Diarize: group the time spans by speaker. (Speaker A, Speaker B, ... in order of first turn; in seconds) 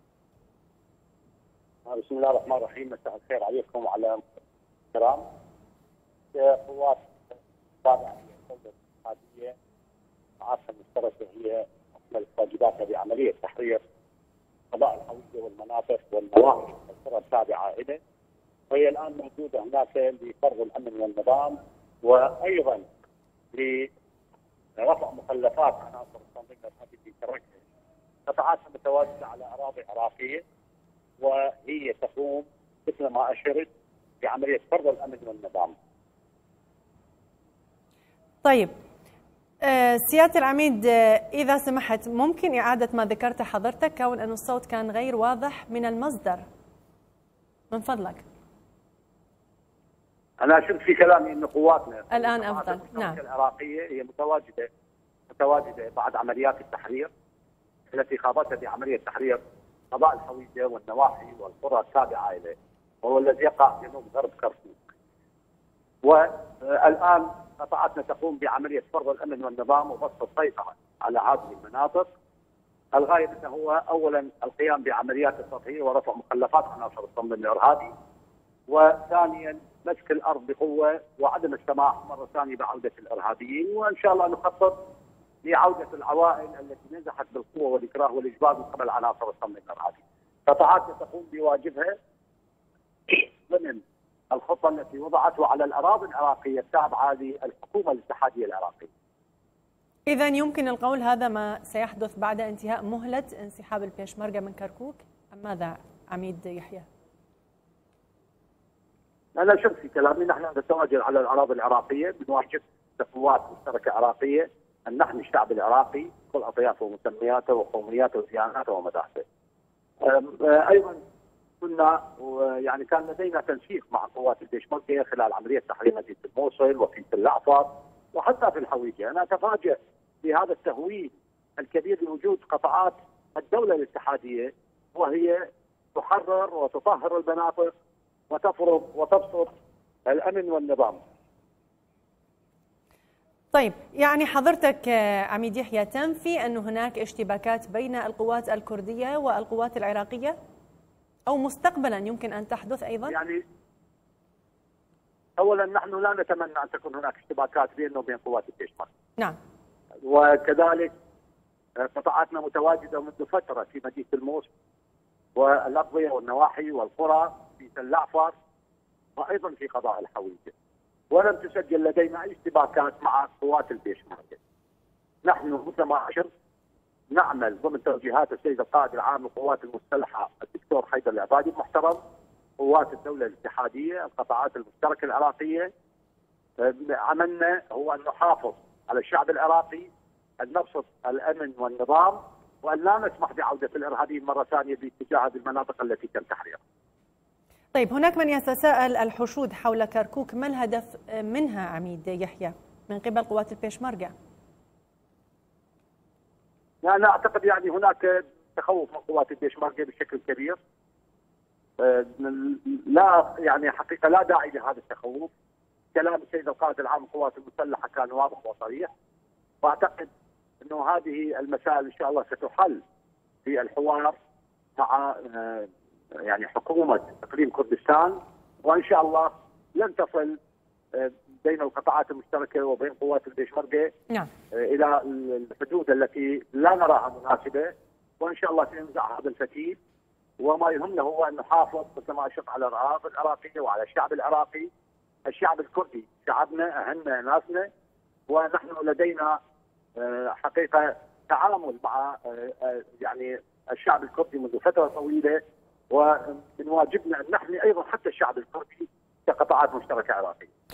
Speaker A: 1.9-4.2, 4.9-5.3, 6.3-9.5, 10.4-13.8, 14.7-18.0, 18.7-22.9, 23.5-23.9, 24.8-27.6, 28.3-30.4, 31.2-33.7, 34.2-35.7, 50.4-54.7, 55.3-57.1, 57.9-59.4, 59.9-64.9, 66.0-72.1, 72.9-77.9, 78.7-84.8, 85.4-92.0, 93.1-98.9, 109.3-119.2, 120.0-121.0, 121.6-137.7, 138.3-139.5, 140.1-141.0, 153.1-153.4, 155.4-158.9, 160.0-160.9, 161.8-164.5, 165.3-168.3, 169.2-170.5, 171.1-174.4, 175.2-176.3, 177.1-182.0, 182.6-185.7, 186.6-189.9, 190.4-196.6, 206.8-210.6, 211.8-215.3, 215.9-218.9, 219.6-220.1, 220.6-222.8, 223.4-224.1, 224.8-225.7, 226.2-230.4, 230.9-233.9, 234.5-239.8, 240.4-244.7, 245.3-247.7, 248.3-249.4, 250.0-260.5
Speaker B: 38.4-38.7, 39.6-46.4, 47.7-48.2, 52.1-53.2, 100.1-106.9, 143.5-150.3, 151.3-153.1, 197.7-204.1